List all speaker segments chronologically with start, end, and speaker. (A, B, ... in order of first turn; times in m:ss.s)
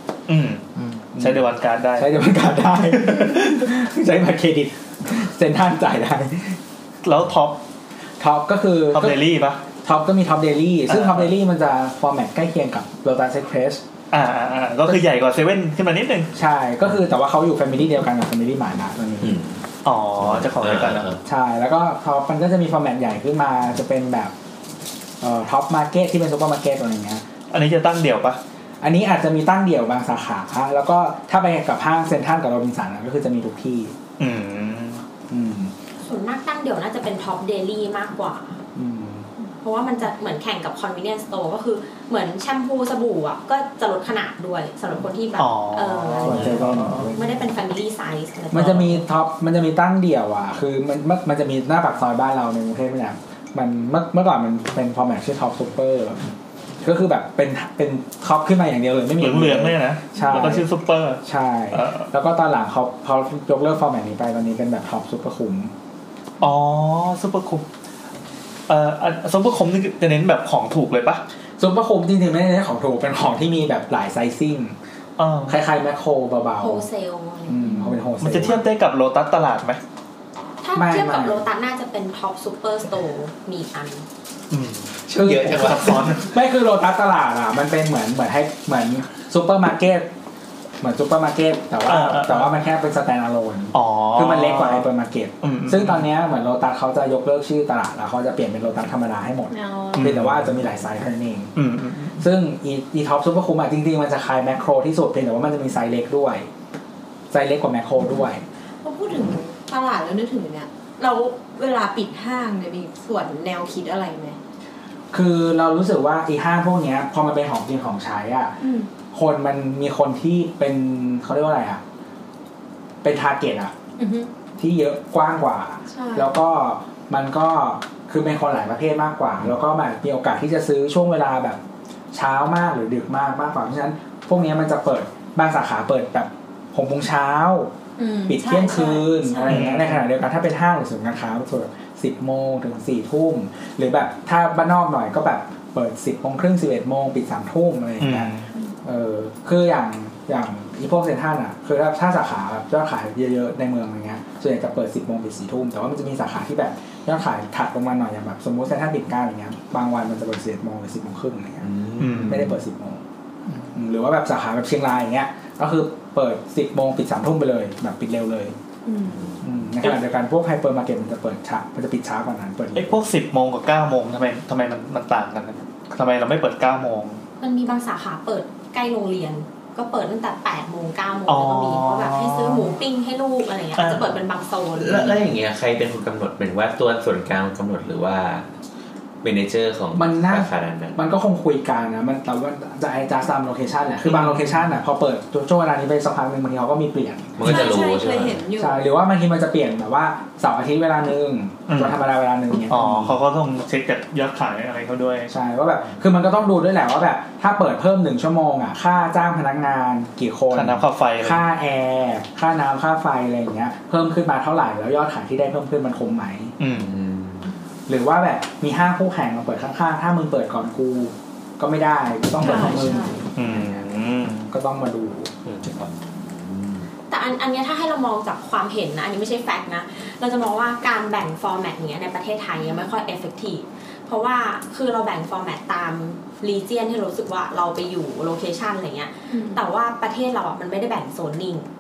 0:00.3-0:02.1 A
0:01.2-0:06.6 B
0:07.0-0:07.6 A
0:08.2-0:09.2 B
0:08.9-0:09.6 A
0:09.8-0:13.8 B
0:10.9-0:11.3 A
0:14.1-0:16.3 A
0:16.3-0:19.4 B
0:19.2-0:19.6 C
0:19.8-0:21.1 A
0:20.2-0:21.2 C
0:21.2-0:24.3 B
0:25.2-0:27.2 B
0:27.5-0:28.4 A
0:28.8-0:33.9 B
0:34.2-0:35.0 A
0:35.3-0:35.7 B
0:36.1-0:38.6 D
0:38.8-0:39.3 B
0:39.6-0:49.0 D
0:45.4-0:47.1 A
0:46.2-0:47.3 B
0:48.5-0:56.2 B
0:56.8-1:00.7 B
0:59.2-1:02.1 A
1:01.2-1:05.7 B
1:06.4-1:07.6 A
1:08.7-1:11.2 A
1:11.6-1:14.8 B
1:15.2-1:15.6 A
1:15.5-1:16.9 B
1:16.6-1:17.8 D
1:17.5-1:18.7 B
1:18.2-1:19.8 A
1:20.6-1:24.0 D
1:20.7-1:21.5 B
1:24.5-1:26.3 A
1:25.1-1:30.1 B
1:25.1-1:26.2 C
1:30.8-1:41.5 B
1:31.9-1:32.6 A
1:33.7-1:34.9 A
1:35.4-1:36.1 A
1:39.5-1:40.1 E
1:40.0-1:40.5 A
1:41.6-1:42.2 A
1:42.2-1:46.5 B
1:47.3-1:48.4 B
1:48.8-1:54.4 E
1:55.1-1:58.6 B
1:58.6-1:58.9 E
1:59.1-2:01.8 B
2:03.0-2:03.7 B
2:04.0-2:04.3 E
2:04.6-2:11.6 B
2:05.9-2:06.3 E
2:12.1-2:17.7 B
2:18.0-2:19.6 E
2:18.3-2:28.3 B
2:19.4-2:20.0 A
2:28.0-2:28.5 A
2:28.8-2:43.0 B
2:41.6-2:42.6 C
2:42.0-2:42.5 A
2:43.8-2:48.6 B
2:48.8-2:49.3 E
2:49.2-2:49.6 C
2:49.4-2:53.0 B
2:52.8-2:57.2 A
2:57.4-3:05.1 D
3:01.3-3:02.8 A
3:03.8-3:04.2 A
3:04.8-3:08.5 C
3:05.0-3:05.2 A
3:09.2-3:11.0 C
3:10.0-3:17.7 B
3:14.0-3:14.8 A
3:17.4-3:18.4 C
3:17.4-3:18.8 E
3:18.6-3:23.2 B
3:21.7-3:22.0 A
3:22.7-3:25.3 A
3:25.3-3:36.6 B
3:30.5-3:31.4 A
3:36.6-3:36.9 A
3:36.7-3:37.5 C
3:37.9-3:43.9 B
3:42.4-3:43.2 E
3:42.4-3:42.8 A
3:43.4-3:44.5 A
3:44.5-3:45.3 B
3:45.4-3:45.9 A
3:46.0-3:46.9 C
3:47.1-4:01.7 D
3:59.3-3:59.6 E